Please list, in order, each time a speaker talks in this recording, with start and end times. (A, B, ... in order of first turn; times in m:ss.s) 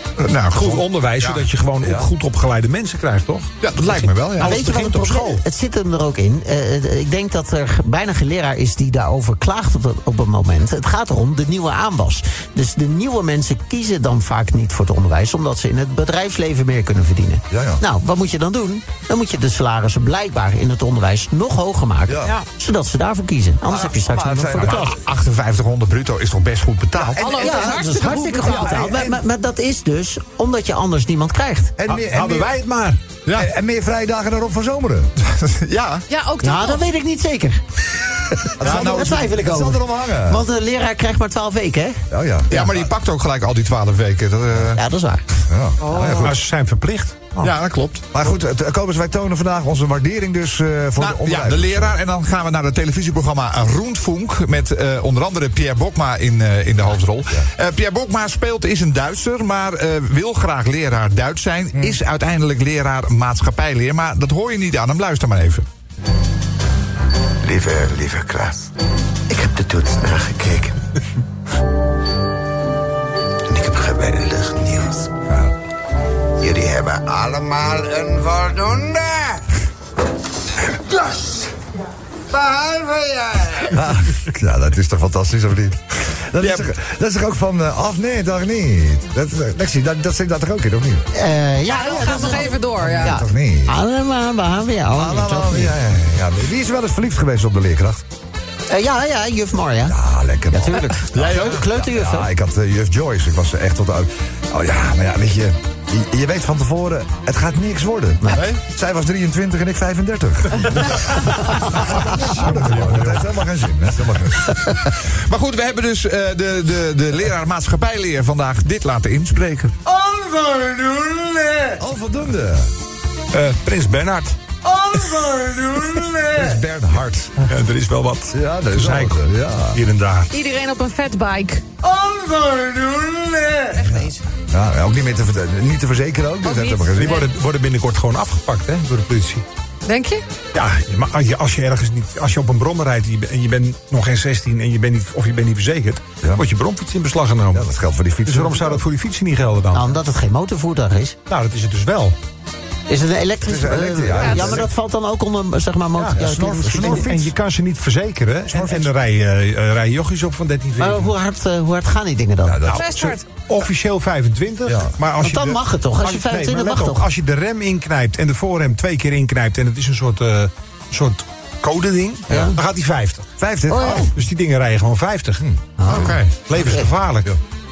0:00.2-0:01.5 A
0:00.5-0:05.4 B
0:01.8-0:02.1 C
0:03.6-0:04.6 A
0:04.4-0:24.9 D
0:17.5-0:17.8 C
0:22.1-0:22.3 C
0:23.6-0:24.9 C
0:24.6-0:27.2 A
0:27.0-0:29.1 C
0:27.2-0:28.9 E
0:27.2-0:31.8 D
0:31.8-0:32.5 C
0:31.9-0:33.0 B
0:33.3-0:35.1 C
0:35.2-0:36.0 A
0:36.1-0:36.9 E
0:36.4-0:37.6 D
0:38.3-0:42.0 D
0:38.6-0:40.4 C
0:38.6-0:39.2 A
0:42.1-0:42.5 C
0:42.5-0:44.8 A
0:44.7-0:45.2 D
0:45.5-0:46.4 C
0:45.8-0:46.3 E
0:46.2-0:47.5 B
0:47.4-0:48.1 A
0:48.1-0:52.0 C
0:51.0-1:05.6 A
1:01.7-1:02.0 C
1:07.4-1:08.5 D
1:07.7-1:08.0 F
1:09.3-1:10.8 D
1:13.5-1:15.0 D
1:15.3-1:15.5 C
1:16.4-1:17.2 D
1:16.6-1:19.0 F
1:18.2-1:18.6 D
1:22.8-1:23.0 F
1:23.7-1:31.1 C
1:31.1-1:35.7 D
1:31.6-1:33.2 E
1:32.5-1:33.8 C
1:34.9-1:38.0 C
1:38.7-1:40.0 D
1:39.9-1:54.6 C
1:40.5-1:42.3 D
1:41.1-1:41.6 A
1:48.3-1:48.6 A
1:52.4-1:53.1 B
1:54.8-1:59.7 A
2:01.8-2:02.7 C
2:03.3-2:04.4 B
2:06.2-2:07.5 C
2:07.5-2:09.2 B
2:08.3-2:09.8 C
2:09.7-2:10.3 B
2:10.3-2:11.6 E
2:13.5-2:14.2 E
2:13.8-2:17.2 C
2:16.4-2:17.3 E
2:17.0-2:19.4 B
2:19.8-2:20.2 E
2:20.5-2:27.7 B
2:27.5-2:28.8 C
2:28.2-2:30.0 B
2:29.7-2:31.2 D
2:31.3-2:32.2 B
2:32.9-2:37.1 D
2:33.4-2:34.7 C
2:34.2-2:34.6 E
2:36.0-2:36.2 B
2:36.1-2:37.3 C
2:36.8-2:41.1 B
2:38.5-2:38.9 C
2:40.8-2:42.7 D
2:42.4-2:42.8 C
2:42.7-2:55.4 B
2:42.7-2:43.2 E
2:44.6-2:44.9 C
2:45.2-2:47.1 D
2:52.3-2:52.6 D
2:53.4-2:54.1 C
2:53.7-2:54.1 D
2:55.8-2:56.9 D
2:55.9-2:56.3 A
2:56.4-2:57.4 B